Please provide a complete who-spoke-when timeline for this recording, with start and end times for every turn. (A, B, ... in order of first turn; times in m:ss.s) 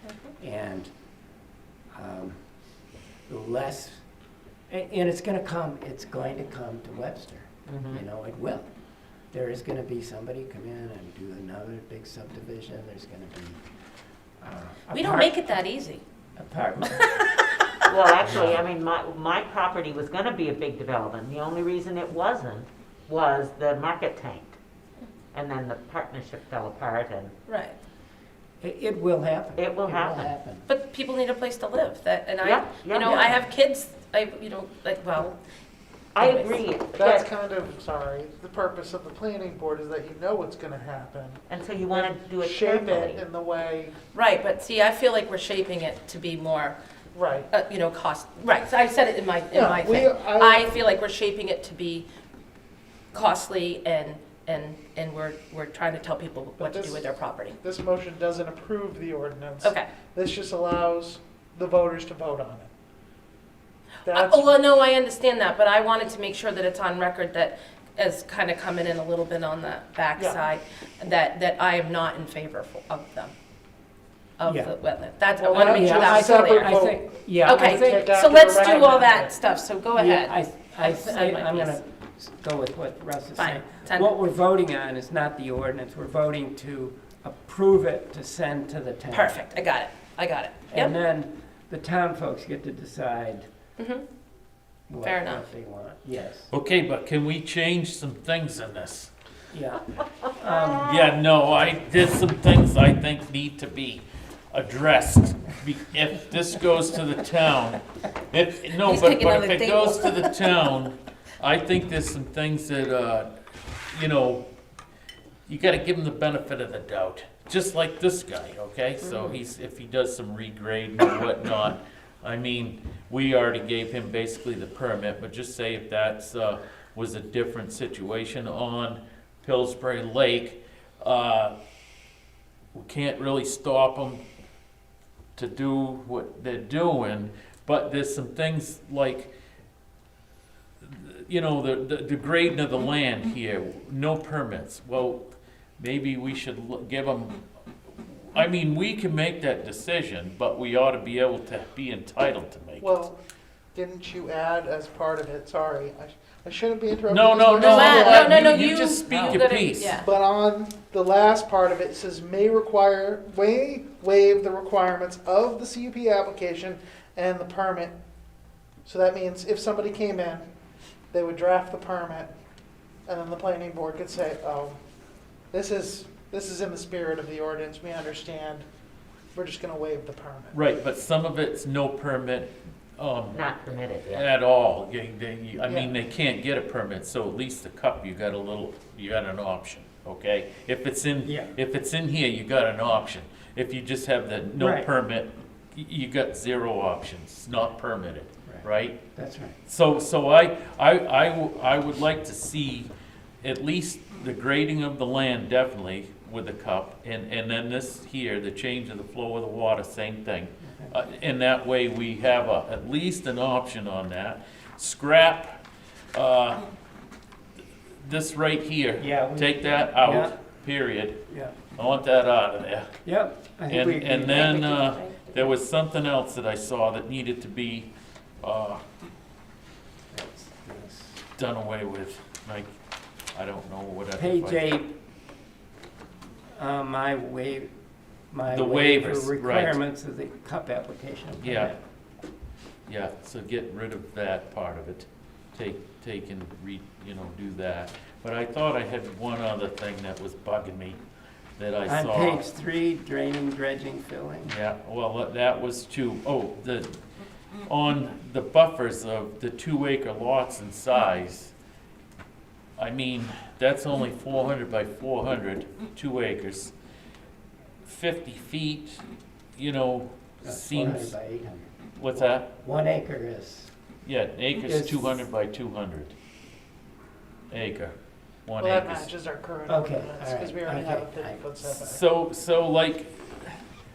0:00.4-0:00.9 A
0:01.9-0:02.4 A
0:03.3-0:04.1 A
0:04.7-0:08.7 A
0:07.7-0:08.0 B
0:09.3-0:13.6 A
0:14.4-0:15.6 A
0:14.9-0:16.0 C
0:16.4-0:17.3 A
0:17.0-0:17.4 C
0:17.9-0:24.6 B
0:18.3-0:18.5 D
0:18.3-0:18.6 A
0:25.3-0:27.3 B
0:27.5-0:27.8 C
0:28.6-0:30.7 A
0:29.6-0:30.3 B
0:30.7-0:35.4 C
0:32.4-0:33.3 B
0:36.2-0:37.3 B
0:36.2-0:36.6 C
0:36.9-0:44.0 E
0:41.5-0:43.2 B
0:44.1-0:46.8 C
0:47.1-0:47.5 E
0:47.5-0:52.1 C
0:49.5-0:50.8 E
0:53.1-0:57.6 C
0:56.6-1:02.7 E
0:59.6-0:59.9 C
1:04.0-1:04.6 E
1:04.1-1:13.3 C
1:10.2-1:10.4 E
1:14.4-1:16.8 C
1:14.4-1:14.7 A
1:15.4-1:18.1 A
1:15.5-1:19.4 E
1:17.4-1:21.8 C
1:20.0-1:29.5 A
1:23.4-1:24.1 C
1:29.1-1:31.0 C
1:30.7-1:33.5 A
1:33.8-1:34.0 C
1:34.9-1:36.5 A
1:35.0-1:35.5 C
1:36.5-1:39.1 D
1:39.5-1:40.9 A
1:40.4-1:40.9 B
1:40.8-1:53.3 D
1:48.8-1:50.5 C
1:53.9-1:54.5 D
1:55.5-2:11.6 D
1:59.0-1:59.4 C
2:12.7-2:14.2 D
2:15.4-2:19.3 D
2:20.8-2:27.4 D
2:28.1-2:32.9 D
2:32.8-2:33.2 E
2:33.7-2:48.0 E
2:37.1-2:40.0 D
2:37.5-2:40.1 C
2:48.8-2:50.5 E
2:51.1-2:52.3 E
2:53.1-2:54.8 E
2:55.5-2:58.6 E
2:59.3-3:00.6 E
3:00.5-3:03.4 D
3:03.3-3:04.3 B
3:04.1-3:19.0 D
3:05.6-3:05.9 E
3:11.2-3:11.5 A
3:14.6-3:14.9 A
3:18.5-3:19.6 A
3:19.7-3:22.9 D
3:23.4-3:35.6 D
3:36.1-3:36.7 D
3:38.0-3:41.2 D
3:39.0-3:40.3 A
3:41.3-3:41.6 A
3:41.8-3:43.0 D
3:43.0-3:44.9 A
3:43.7-3:48.8 D
3:44.4-3:45.5 C
3:50.1-3:51.2 A
3:51.4-3:52.7 D
3:53.3-3:54.8 D
3:54.2-3:55.0 A
3:56.5-3:57.7 A
3:58.3-4:01.8 A
3:58.5-3:59.8 D
4:01.4-4:01.7 D
4:02.9-4:11.0 D
4:11.6-4:12.4 D
4:11.9-4:14.6 A
4:14.4-4:17.0 D
4:17.7-4:21.5 D
4:22.8-4:26.7 D
4:27.8-4:29.0 D
4:29.6-4:31.2 D
4:30.4-4:31.7 A
4:32.0-4:32.5 D
4:32.5-4:33.7 A
4:34.0-4:36.2 D
4:34.6-4:35.2 A
4:37.5-4:38.0 D
4:38.5-4:39.1 D
4:38.6-4:42.0 E
4:39.7-4:41.5 A
4:41.8-4:43.6 D